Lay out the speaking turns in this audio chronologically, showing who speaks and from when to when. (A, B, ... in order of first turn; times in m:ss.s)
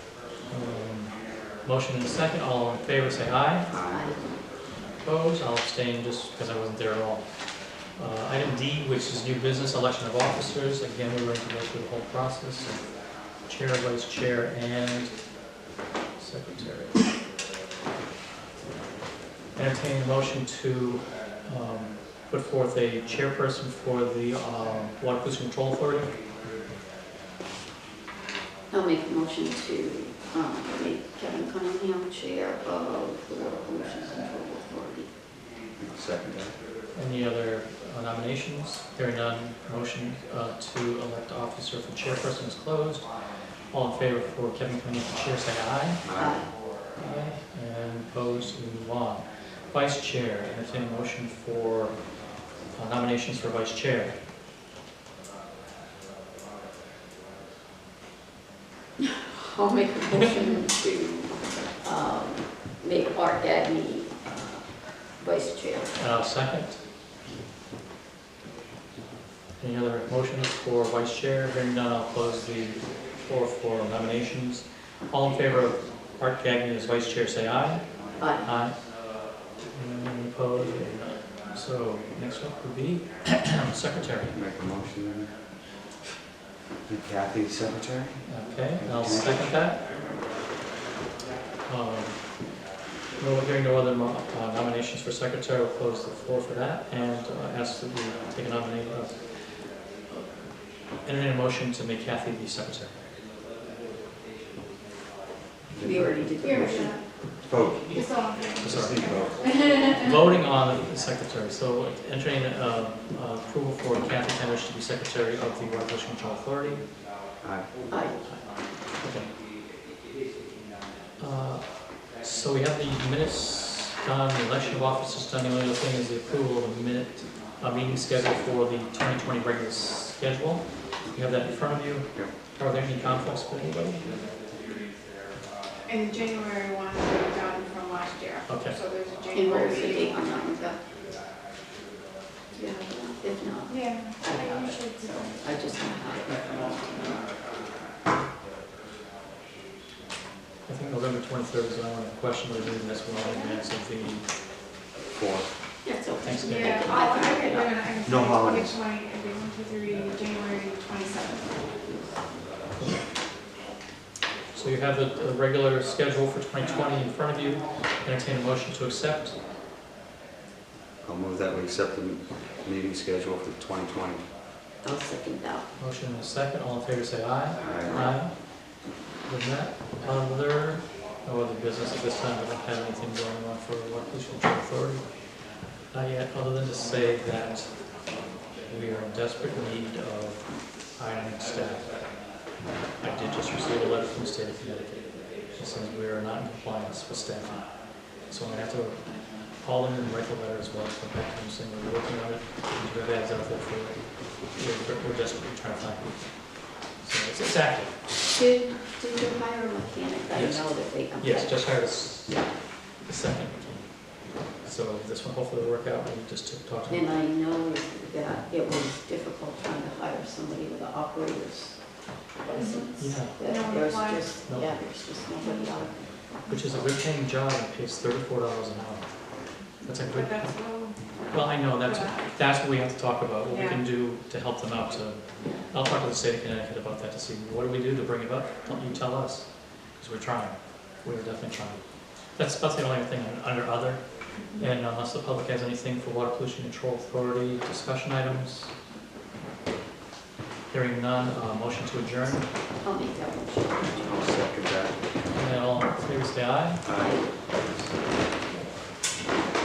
0:00.5-0:03.7 A
0:03.7-0:04.1 B
0:03.9-0:04.2 C
0:04.9-0:07.3 A
0:07.8-0:15.2 A
0:16.2-0:17.1 A
0:19.6-0:26.2 A
0:28.7-0:35.1 C
0:35.8-0:36.6 B
0:36.9-0:43.2 A
0:43.7-0:46.0 A
0:46.0-0:46.4 B
0:46.2-0:46.5 C
0:46.9-0:54.2 A
0:59.0-1:06.2 C
1:06.0-1:06.8 A
1:09.6-1:18.9 A
1:18.2-1:18.5 C
1:19.7-1:24.4 A
1:24.3-1:25.4 B
1:26.9-1:29.6 B
1:28.3-1:29.9 A
1:31.7-1:32.5 A
1:33.2-1:39.4 A
1:41.0-1:43.0 A
1:45.7-1:46.9 B
1:45.8-1:47.0 C
1:46.4-1:47.0 D
1:47.4-1:49.7 B
1:47.9-1:50.1 D
1:48.6-1:49.2 A
1:49.8-1:56.9 A
1:57.4-1:57.7 B
1:57.9-1:58.2 C
1:58.2-1:59.3 A
2:01.2-2:14.3 A
2:15.8-2:20.5 D
2:18.5-2:18.8 A
2:19.3-2:20.8 C
2:22.6-2:27.3 C
2:23.7-2:25.8 D
2:30.7-2:34.3 A
2:33.2-2:33.6 D
2:35.1-2:35.5 B
2:35.8-2:37.9 C
2:36.2-2:37.0 A
2:36.4-2:42.2 D
2:38.0-2:38.8 B
2:44.5-2:49.4 A
2:51.0-2:54.2 B
2:54.8-2:55.7 C
2:55.8-2:58.6 A
2:57.6-2:58.1 B
2:57.6-2:58.1 C
2:59.2-3:05.2 A
3:05.9-3:07.9 A
3:08.7-3:12.0 A
3:13.0-3:28.0 A
3:28.2-3:32.5 C
3:30.3-3:37.1 A
3:36.9-3:41.8 C
3:42.4-3:46.3 C
3:42.5-3:44.4 D
3:43.0-3:43.4 A
3:44.4-3:45.1 A
3:45.4-3:45.7 D
3:46.5-3:50.7 A
3:50.1-3:52.4 D
3:51.2-4:08.7 A
3:53.5-3:53.8 D
4:10.7-4:12.5 A
4:12.8-4:14.3 C
4:14.0-4:15.0 B
4:15.3-4:16.8 A
4:16.8-4:17.8 B
4:16.9-4:17.4 C